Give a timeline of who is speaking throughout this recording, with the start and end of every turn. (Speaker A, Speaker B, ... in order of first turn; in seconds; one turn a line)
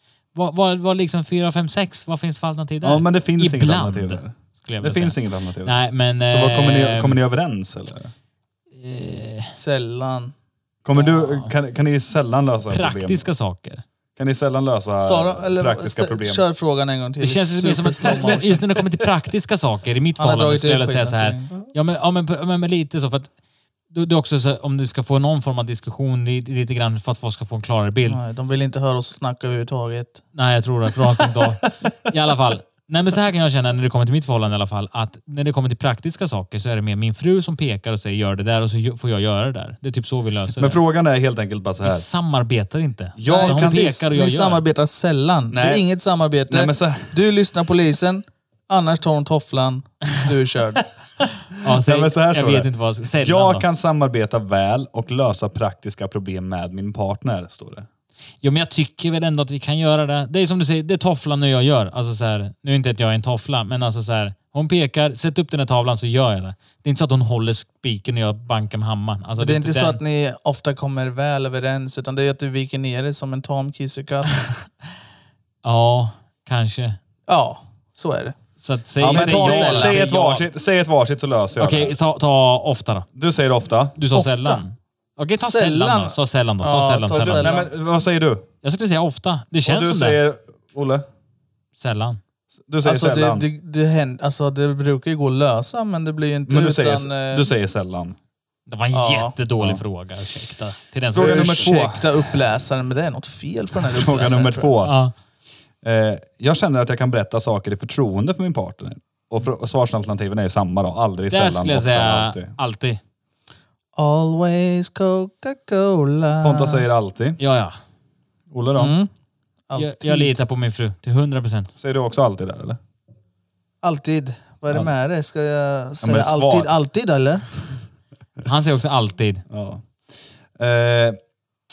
Speaker A: 0.3-7.2
Speaker B: 2.8-8.1
Speaker A: 8.7-9.5
Speaker C: 9.5-10.3
Speaker B: 10.8-13.2
Speaker A: 10.9-11.5
Speaker A: 12.7-13.8
Speaker B: 14.2-16.4
Speaker C: 15.0-18.6
Speaker A: 17.2-23.3
Speaker C: 20.2-21.7
Speaker A: 23.9-28.2
Speaker C: 28.1-30.2
Speaker A: 30.3-40.8
Speaker B: 40.6-42.0
Speaker A: 41.8-44.6
Speaker B: 43.1-43.9
Speaker C: 43.2-50.9
Speaker B: 45.5-45.8
Speaker B: 46.5-47.1
Speaker A: 51.6-53.6
Speaker B: 51.7-57.9
Speaker A: 58.4-70.0
Speaker C: 69.4-74.4
Speaker A: 75.6-77.0
Speaker C: 77.3-78.4
Speaker A: 78.6-80.5
Speaker B: 79.0-81.9
Speaker C: 79.0-80.0
Speaker A: 81.6-83.0
Speaker B: 83.1-84.0
Speaker A: 84.0-87.6
Speaker C: 84.1-84.6
Speaker C: 85.4-87.7
Speaker B: 87.2-88.5
Speaker A: 88.6-90.2
Speaker B: 89.6-91.0
Speaker A: 91.8-92.2
Speaker B: 92.7-93.5
Speaker C: 92.8-97.5
Speaker B: 96.5-98.2
Speaker A: 98.7-101.7
Speaker C: 98.9-99.3
Speaker B: 101.1-102.0
Speaker C: 101.1-104.7
Speaker B: 103.8-105.0
Speaker A: 104.8-105.1
Speaker B: 105.8-112.5
Speaker A: 111.3-113.0
Speaker C: 114.0-116.8
Speaker B: 116.4-117.4
Speaker A: 117.4-117.7
Speaker B: 118.5-118.9
Speaker C: 118.8-119.1
Speaker C: 119.7-120.3
Speaker A: 119.7-121.7
Speaker B: 121.8-122.8
Speaker C: 123.8-127.4
Speaker B: 126.0-126.7
Speaker A: 128.4-129.4
Speaker B: 129.5-129.9
Speaker B: 130.6-131.2